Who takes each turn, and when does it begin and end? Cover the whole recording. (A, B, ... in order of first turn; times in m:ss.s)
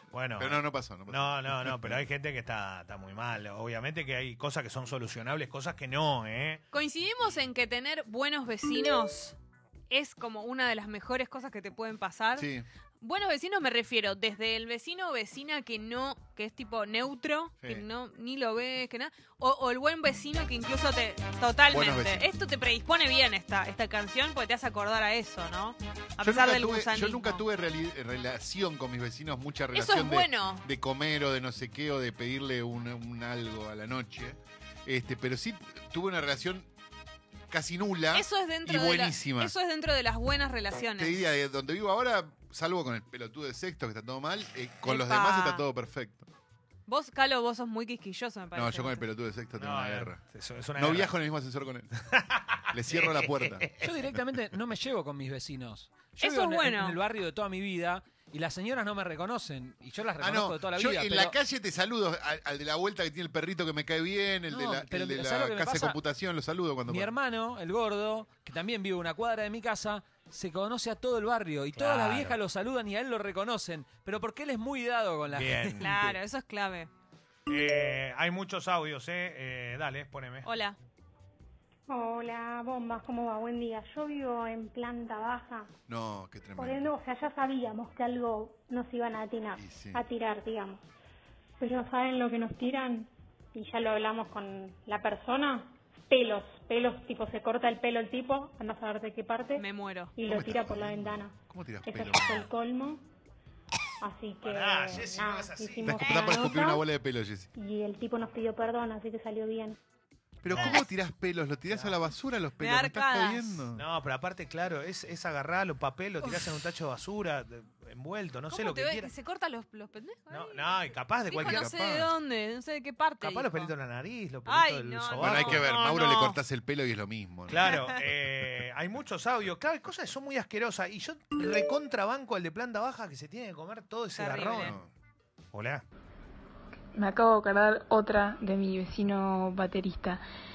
0:00.1-0:06.6 A
0:00.4-0:02.0 B
0:06.7-0:09.4 C
0:09.9-0:12.5 C
0:12.3-0:12.7 B
0:13.0-0:27.4 C
0:17.6-0:17.8 B
0:21.7-0:22.3 B
0:26.2-0:36.7 B
0:29.7-0:30.6 C
0:37.5-0:39.5 B
0:38.1-0:41.3 C
0:41.0-0:46.3 B
0:44.8-0:45.6 C
0:46.8-0:49.0 C
0:48.5-0:50.2 B
0:49.6-0:51.1 A
0:50.8-0:51.9 B
0:52.1-0:53.9 A
0:52.7-0:53.7 B
0:53.8-1:01.3 D
0:56.2-0:57.0 C
1:00.2-1:07.1 B
1:04.5-1:06.0 D
1:06.9-1:16.2 D
1:11.7-1:12.4 A
1:15.3-1:15.9 A
1:15.8-1:16.9 C
1:17.5-1:20.5 A
1:20.4-1:20.8 C
1:21.9-1:25.7 E
1:25.9-1:26.9 B
1:26.6-1:30.8 E
1:29.5-1:30.0 B
1:31.6-1:39.6 E
1:39.6-1:40.1 C
1:40.1-1:43.0 E
1:40.2-1:42.5 B
1:44.0-1:46.8 E
1:44.4-1:46.2 A
1:45.8-1:47.5 B
1:46.0-1:46.5 C
1:47.5-1:49.8 E
1:50.4-1:53.8 B
1:50.5-1:50.8 A
1:50.6-1:50.8 C
1:51.7-1:52.0 A
1:52.6-1:53.6 C
1:53.7-1:59.1 A
1:56.2-1:56.5 C
1:58.5-2:03.7 C
2:00.3-2:01.7 A
2:01.3-2:02.1 B
2:03.2-2:05.6 A
2:04.4-2:06.4 C
2:05.2-2:08.1 B
2:07.5-2:14.8 A
2:07.6-2:08.0 C
2:14.2-2:14.8 C
2:14.6-2:14.9 B
2:15.5-2:15.8 A
2:16.9-2:20.2 F